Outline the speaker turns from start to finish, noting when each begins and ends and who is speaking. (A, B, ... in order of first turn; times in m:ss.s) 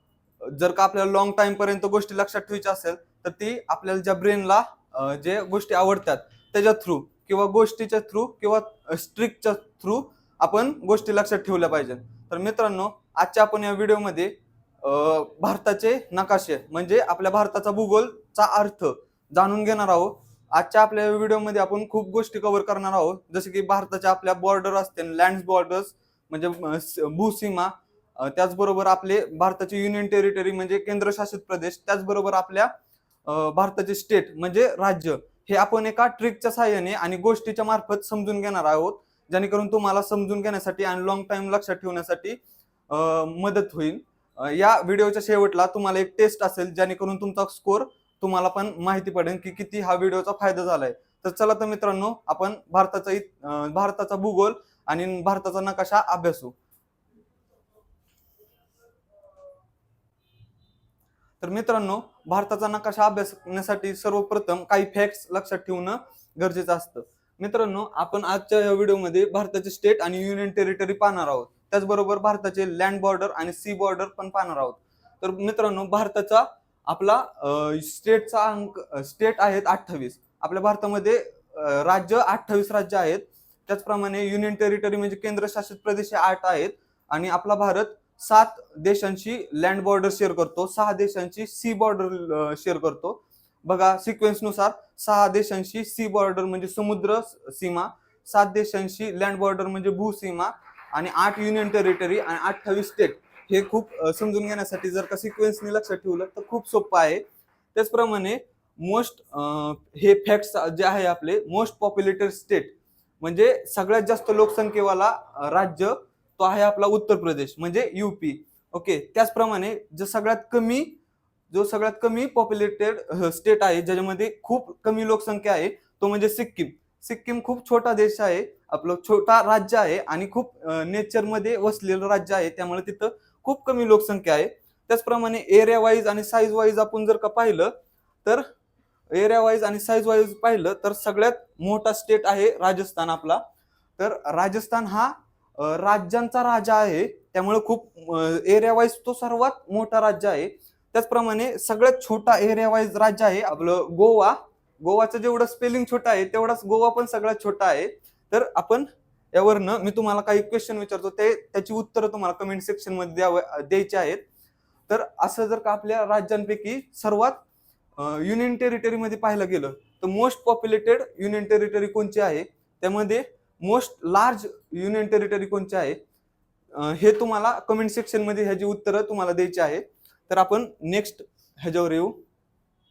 0:00.4-0:32.7 A
0:33.2-0:42.4 A
0:42.9-0:56.5 A
1:01.4-1:47.2 A
1:47.7-2:00.9 A
2:01.5-2:17.7 A
2:19.1-2:23.4 A
2:24.0-2:44.2 A
2:44.9-2:47.4 A
2:48.0-2:56.0 A
2:56.7-3:02.2 A